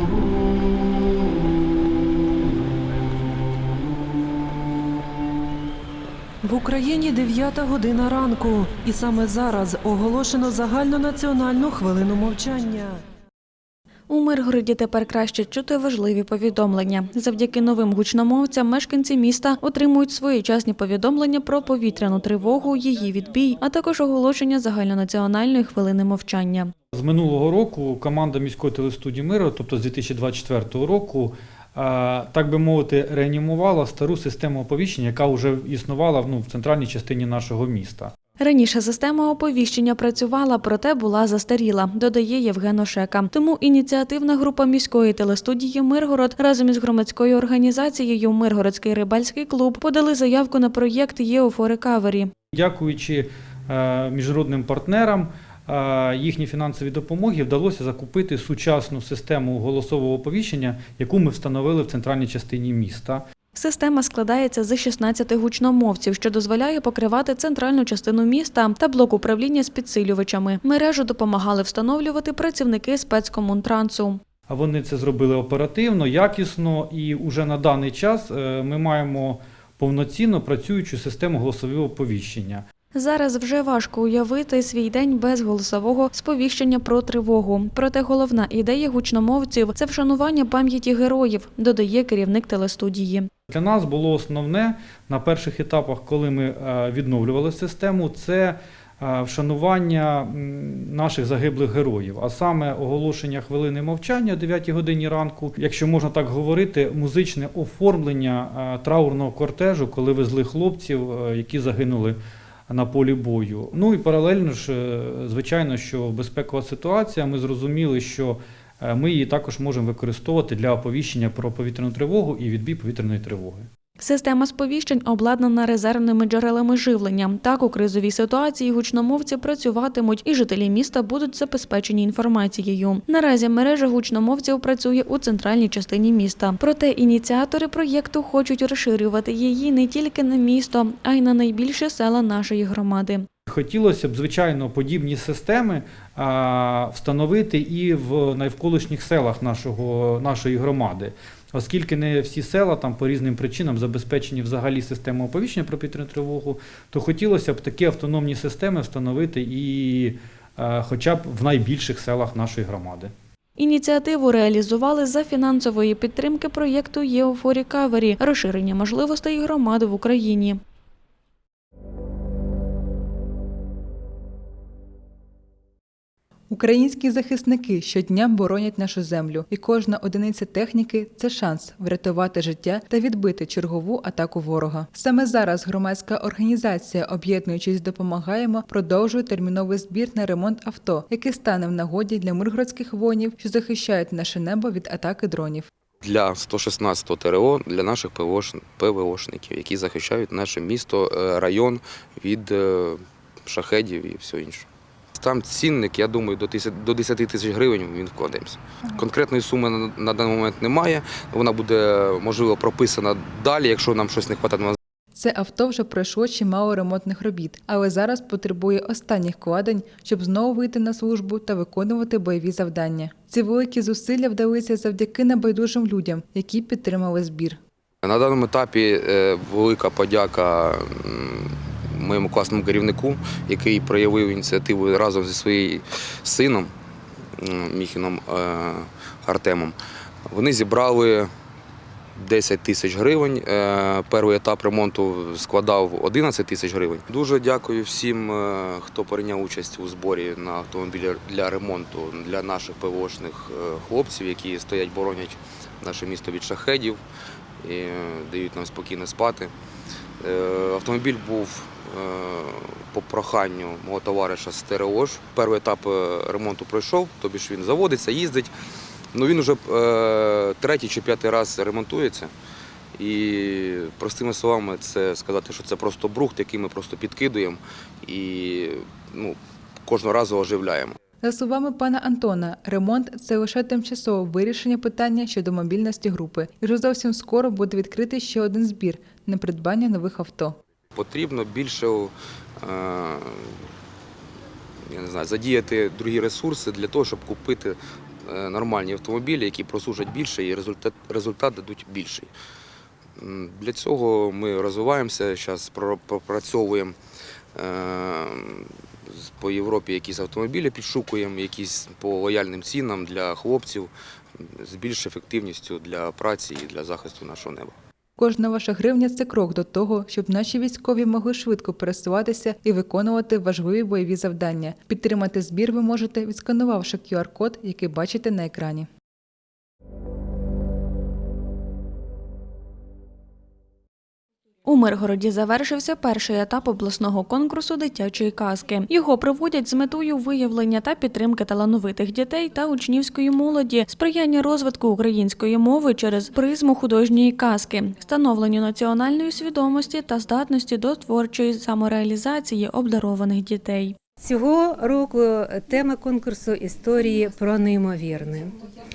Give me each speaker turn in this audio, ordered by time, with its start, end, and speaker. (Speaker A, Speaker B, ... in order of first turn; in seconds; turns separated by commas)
Speaker A: 6.4-13.0, Speaker B: 14.1-26.7, Speaker C: 26.9-38.1, Speaker B: 38.4-52.3, Speaker C: 52.5-63.2, Speaker B: 63.5-74.2, Speaker C: 74.5-82.7, Speaker B: 82.9-93.3, Speaker C: 93.5-112.2, Speaker C: 112.7-123.7, Speaker B: 124.0-143.2, Speaker C: 143.5-163.1, Speaker B: 163.6-170.6, Speaker D: 176.5-195.7, Speaker E: 196.0-214.8, Speaker D: 215.1-227.6, Speaker E: 228.0-236.7, Speaker E: 237.4-239.8, Speaker E: 240.3-241.3, Speaker E: 242.2-257.0, Speaker E: 257.6-259.5, Speaker E: 260.2-268.5, Speaker E: 269.1-272.3, Speaker E: 272.9-281.0, Speaker D: 281.2-290.6, Speaker E: 290.9-293.7, Speaker E: 294.9-302.3, Speaker E: 303.2-306.9, Speaker E: 307.6-317.7, Speaker D: 318.2-328.9, Speaker B: 334.6-353.9, Speaker F: 354.2-358.5